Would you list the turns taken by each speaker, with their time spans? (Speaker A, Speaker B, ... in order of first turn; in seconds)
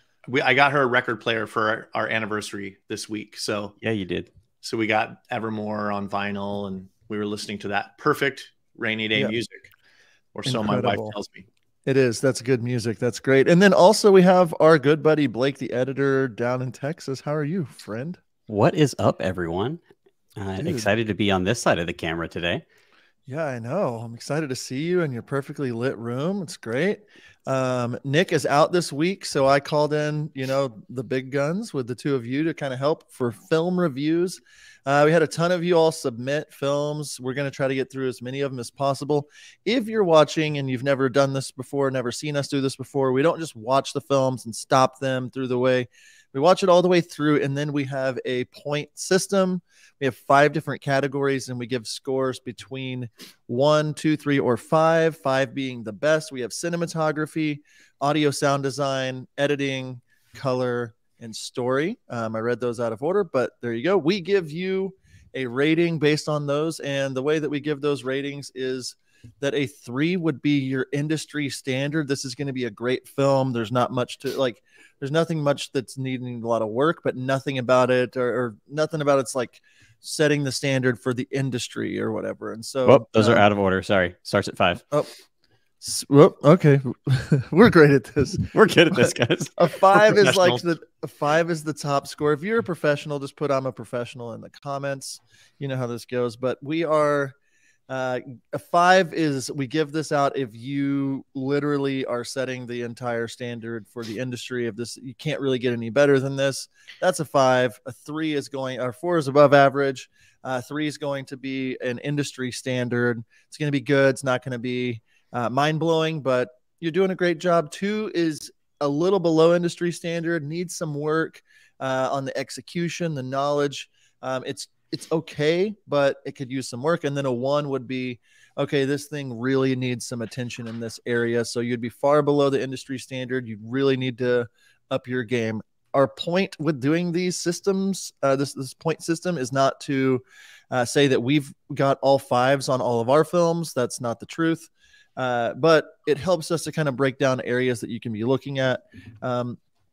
Speaker A: 0.3-3.8, 4.6-9.7, 10.3-11.5, 90.1-90.7
Speaker B: 3.8-4.3, 18.5-19.8, 20.4-22.6, 82.8-84.8, 88.5-89.5
Speaker C: 10.5-11.2, 11.9-18.2, 20.6-20.9, 23.3-83.4, 85.8-97.3, 97.9-149.6